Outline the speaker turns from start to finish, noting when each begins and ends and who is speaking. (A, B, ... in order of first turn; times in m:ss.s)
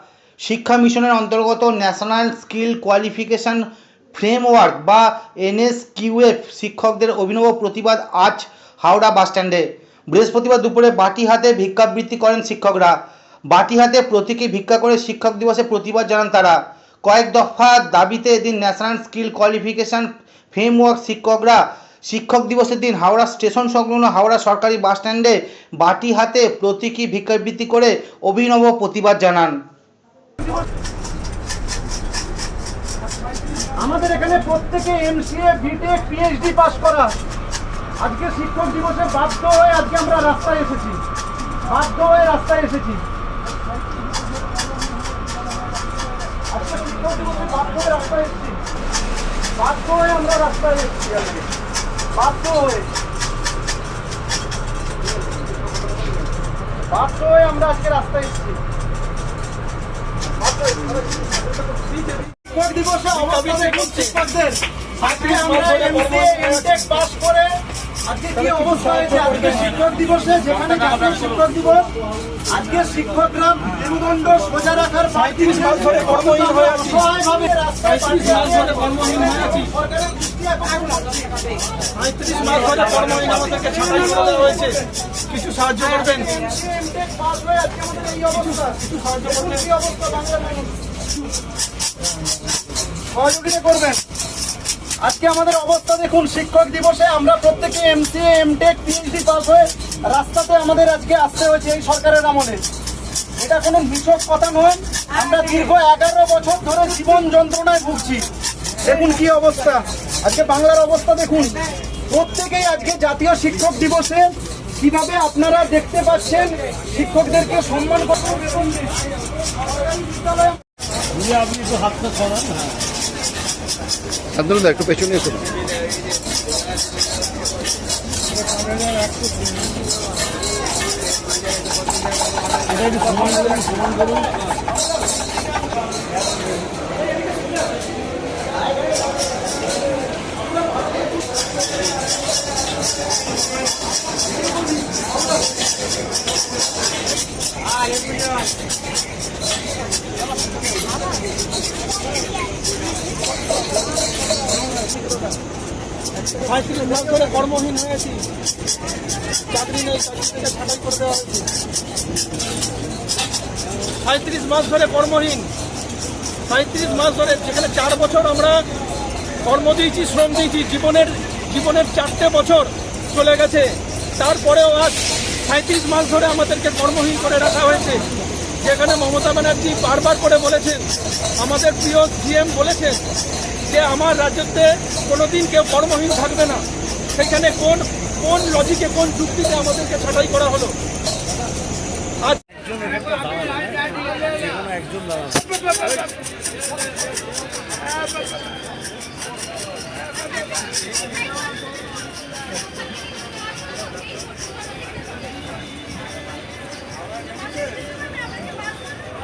0:00.4-0:13.0 A
0:13.5-0:29.6 A
0:33.8-0:37.2 B
0:38.0-0:41.0 B
0:41.7-0:43.0 B
0:46.5-0:48.6 B
0:49.6-0:51.5 B
0:52.2-0:52.9 B
0:56.9-0:58.6 B
1:02.3-1:11.9 B
1:03.2-1:04.1 C
1:05.0-1:06.8 C
1:08.4-1:09.7 C
1:12.5-1:21.3 B
1:15.2-1:17.1 C
1:17.9-1:19.7 C
1:22.0-1:26.4 C
1:23.5-1:24.4 B
1:26.0-1:30.7 B
1:28.4-1:29.6 C
1:33.1-1:34.0 B
1:35.0-1:42.6 B
1:43.4-1:48.3 B
1:48.8-1:58.9 B
2:01.5-2:02.1 C
2:36.4-2:38.3 C
2:39.5-2:41.5 C
2:44.0-2:45.5 C
2:46.5-2:48.7 C
2:49.4-3:03.1 C
3:03.6-3:10.8 C
3:12.2-3:13.7 C
3:14.4-3:15.4 C